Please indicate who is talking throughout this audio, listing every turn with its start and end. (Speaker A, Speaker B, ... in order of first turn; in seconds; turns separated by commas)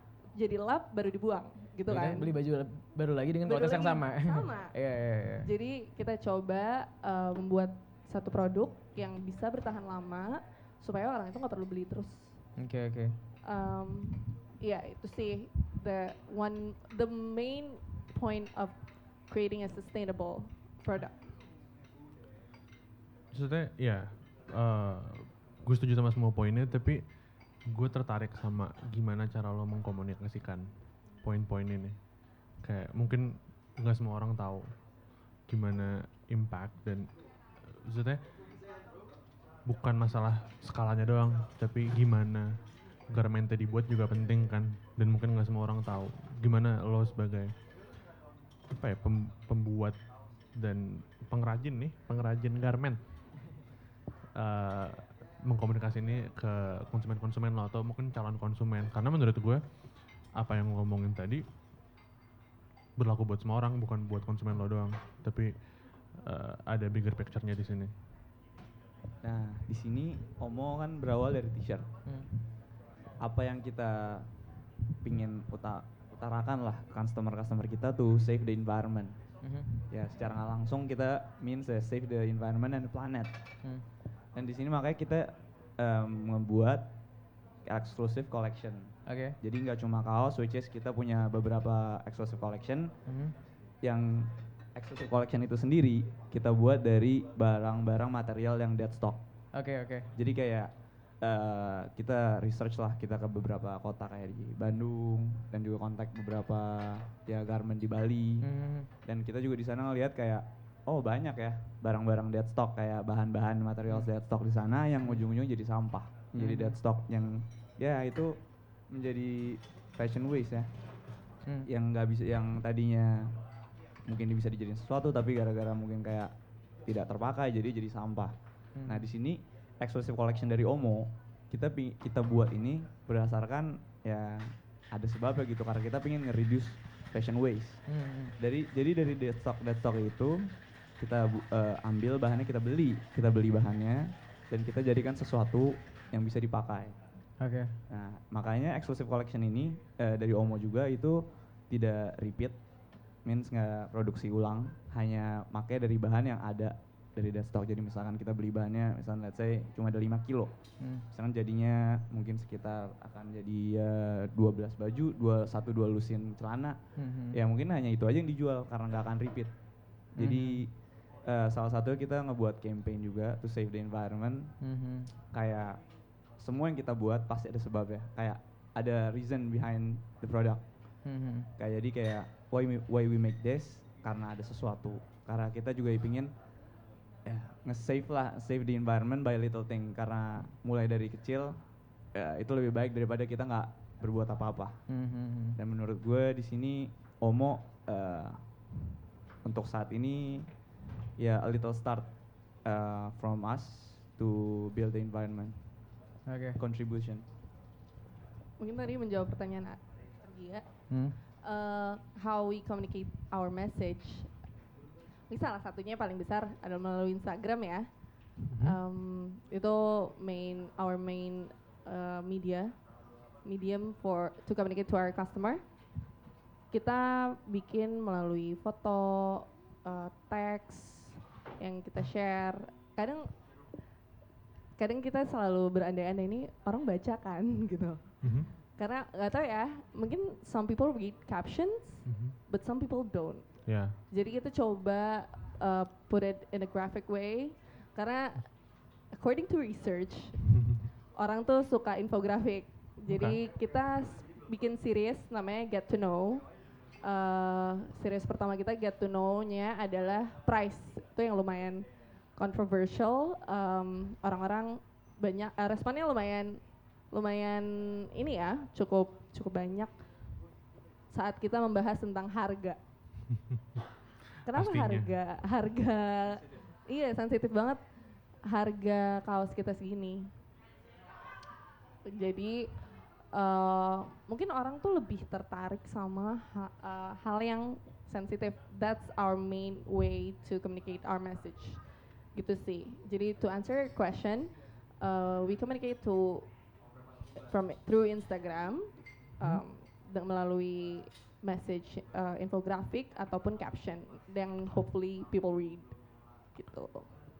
Speaker A: 0.3-2.3, Speaker B: 1.9-5.5, Speaker A: 3.5-4.7, Speaker A: 5.4-12.4, Speaker B: 12.6-13.1, Speaker A: 13.4-18.8, Speaker A: 19.3-21.2, Speaker C: 23.3-27.0, Speaker C: 27.7-30.7, Speaker C: 31.2-32.0, Speaker C: 32.6-34.7, Speaker C: 35.5-37.1, Speaker C: 37.6-38.2, Speaker C: 39.6-42.6, Speaker C: 43.1-47.5, Speaker C: 48.7-50.0, Speaker C: 50.6-53.0, Speaker C: 54.3-59.6, Speaker C: 60.4-61.4, Speaker C: 63.0-65.5, Speaker C: 66.1-67.9, Speaker D: 69.2-71.9, Speaker D: 73.2-74.2, Speaker D: 75.0-79.2, Speaker B: 79.4-79.7, Speaker D: 79.9-83.3, Speaker D: 84.3-86.8, Speaker D: 87.7-92.9, Speaker B: 89.0-89.3, Speaker B: 93.0-93.3, Speaker D: 93.8-99.2, Speaker B: 99.5-100.1, Speaker D: 100.2-100.7, Speaker D: 101.2-108.4, Speaker B: 108.4-108.9, Speaker D: 109.0-118.3, Speaker B: 116.4-116.8, Speaker D: 118.9-120.7, Speaker D: 121.7-123.3, Speaker D: 124.0-126.3, Speaker D: 126.8-128.3, Speaker B: 128.8-129.1, Speaker D: 128.9-137.8, Speaker B: 137.9-138.3, Speaker D: 138.4-140.4, Speaker D: 141.0-146.9, Speaker B: 147.4-147.7, Speaker D: 147.9-152.6, Speaker D: 153.2-160.5, Speaker D: 161.1-166.8, Speaker B: 167.0-167.4, Speaker D: 167.3-169.5, Speaker D: 170.2-170.7, Speaker B: 170.2-170.6, Speaker D: 171.2-174.5, Speaker B: 174.6-175.1, Speaker D: 175.3-175.8, Speaker D: 176.4-180.6, Speaker B: 181.1-181.5, Speaker D: 181.6-186.3, Speaker D: 187.2-191.6, Speaker D: 192.1-194.8, Speaker B: 194.9-195.6, Speaker D: 195.6-198.4, Speaker D: 199.4-200.4, Speaker D: 201.2-202.1, Speaker D: 202.7-205.6, Speaker B: 206.3-206.6, Speaker D: 206.6-207.2, Speaker A: 208.6-210.6, Speaker A: 211.4-214.3, Speaker A: 215.3-217.9, Speaker C: 218.5-218.8, Speaker A: 218.6-222.7, Speaker A: 223.4-225.6, Speaker A: 226.7-233.2, Speaker A: 234.8-238.0, Speaker C: 238.2-238.5, Speaker A: 238.8-243.4, Speaker C: 242.0-242.3, Speaker C: 243.7-243.9, Speaker A: 244.1-248.5, Speaker A: 249.1-250.4, Speaker C: 250.4-250.8, Speaker A: 251.2-256.4, Speaker C: 253.1-253.4, Speaker A: 257.0-261.8, Speaker A: 262.4-266.6, Speaker A: 267.1-269.9, Speaker A: 271.1-272.8, Speaker A: 274.4-277.8, Speaker C: 274.5-275.1, Speaker A: 278.5-280.3, Speaker A: 282.1-282.7, Speaker A: 283.3-291.8, Speaker A: 292.3-296.4, Speaker A: 297.5-305.9, Speaker A: 306.5-307.1